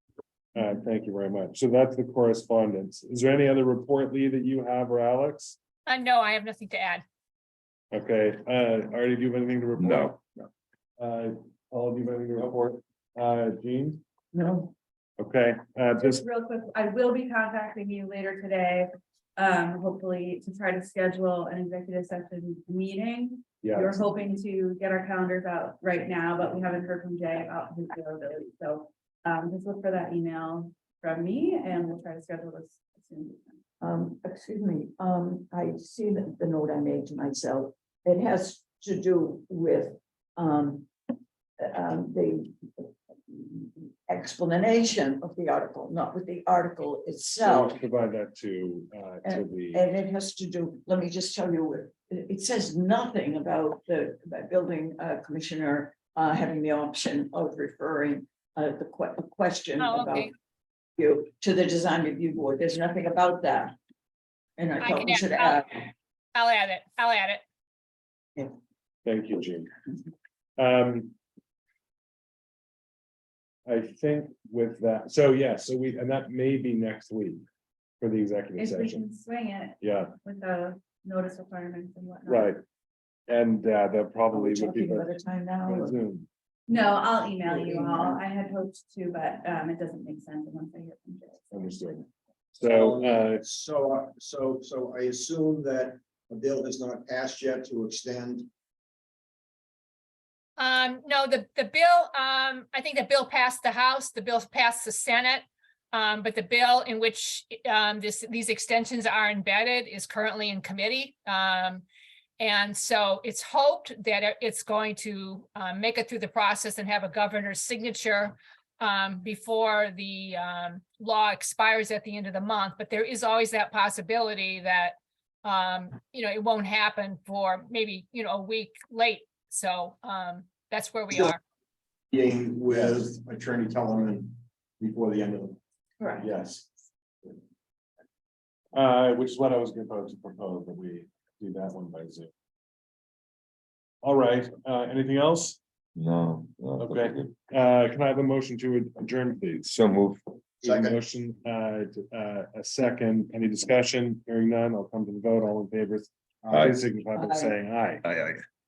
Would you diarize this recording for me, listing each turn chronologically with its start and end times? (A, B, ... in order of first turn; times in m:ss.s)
0:00.6-0:05.6 A
0:05.9-0:07.0 B
0:07.9-0:10.2 A
0:09.8-0:10.1 C
0:11.0-0:14.0 A
0:14.3-0:14.7 D
0:15.2-0:16.2 A
0:16.0-0:33.6 E
0:23.6-0:24.0 A
0:33.8-0:40.9 D
0:41.6-0:47.8 D
0:47.4-0:49.8 A
0:49.2-1:00.3 D
0:59.8-1:00.3 B
1:01.0-1:03.8 D
1:04.6-1:05.9 D
1:04.8-1:05.6 B
1:06.3-1:07.4 B
1:09.0-1:09.7 A
1:10.6-1:11.2 A
1:13.7-1:17.4 A
1:18.0-1:19.0 A
1:18.6-1:22.6 E
1:19.8-1:20.1 A
1:22.3-1:22.6 A
1:23.3-1:26.3 A
1:24.3-1:26.0 D
1:26.7-1:31.5 E
1:27.4-1:28.2 D
1:31.5-1:32.1 A
1:32.6-1:33.4 A
1:32.6-1:38.5 F
1:40.6-1:51.8 B
1:52.4-2:11.4 B
2:12.1-2:15.6 F
2:16.0-2:16.3 E
2:16.2-2:16.7 A
2:18.7-2:22.3 A
2:24.0-2:25.6 A
2:26.0-2:27.3 C
2:26.8-2:29.8 A
2:29.7-2:30.4 C
2:30.6-2:31.0 F
2:30.6-2:38.0 A
2:36.4-2:36.7 F
2:36.5-2:36.8 C
2:37.2-2:37.6 D
2:38.1-2:38.4 C